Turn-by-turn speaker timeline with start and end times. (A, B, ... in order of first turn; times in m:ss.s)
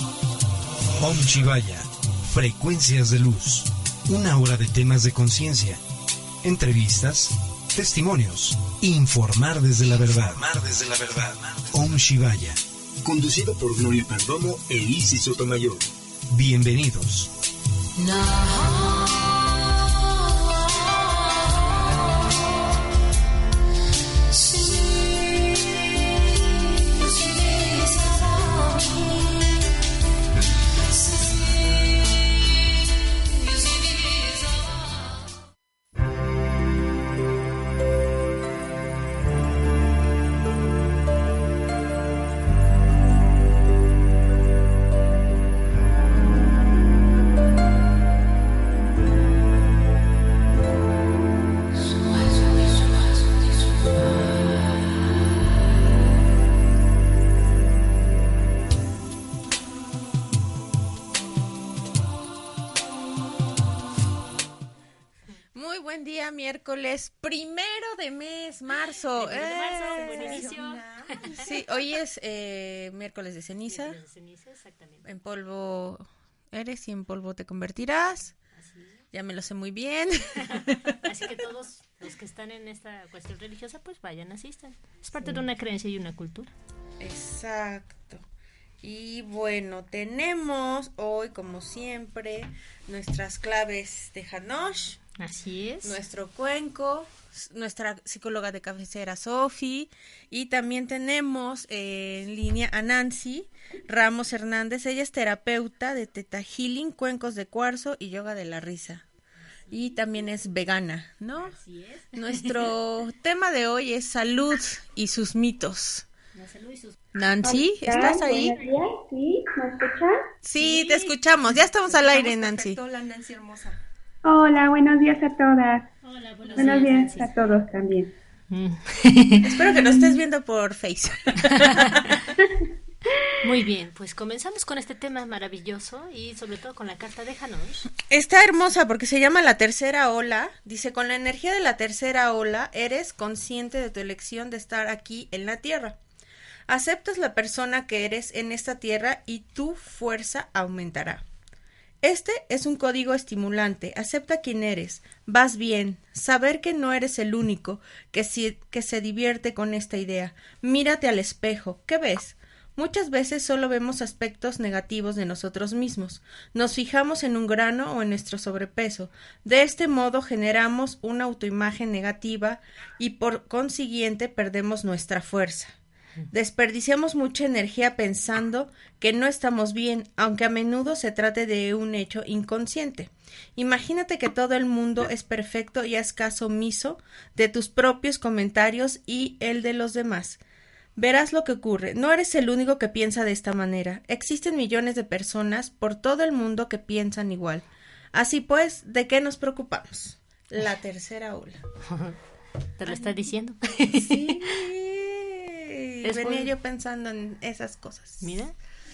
0:00.9-0:05.8 A
0:06.4-0:17.3 A
0:18.0-0:18.4 A
1:05.5-1:10.4 B
1:09.2-1:11.4 C
1:09.2-1:11.4 D
1:11.3-1:14.0 B
1:13.7-1:15.0 C
1:15.0-1:18.4 B
1:18.6-1:18.9 C
1:19.1-1:20.9 B
1:20.4-1:26.5 C
1:27.0-1:28.2 B
1:28.8-1:35.0 B
1:35.2-1:36.0 C
1:35.8-1:49.0 B
1:49.7-1:51.6 B
1:51.5-1:52.5 C
1:52.1-1:56.1 B
1:56.4-1:57.0 C
1:57.1-1:58.6 B
1:57.4-2:00.2 E
2:00.4-2:02.8 B
2:00.6-2:00.9 C
2:01.8-2:03.8 D
2:04.2-2:05.9 E
2:06.0-2:07.3 C
2:06.6-2:08.2 E
2:08.5-2:09.5 C
2:09.4-2:12.3 B
2:09.7-2:10.0 E
2:11.6-2:12.2 C
2:13.4-2:17.9 C
2:18.1-2:26.0 B
2:26.7-2:31.2 B
2:32.0-2:55.8 B
2:56.3-3:10.4 B
3:11.0-3:21.6 B
3:21.9-3:22.2 C
3:22.8-3:24.5 C
3:22.9-3:23.3 B
3:23.9-3:28.3 B
3:26.0-3:26.5 C
3:28.2-3:28.5 C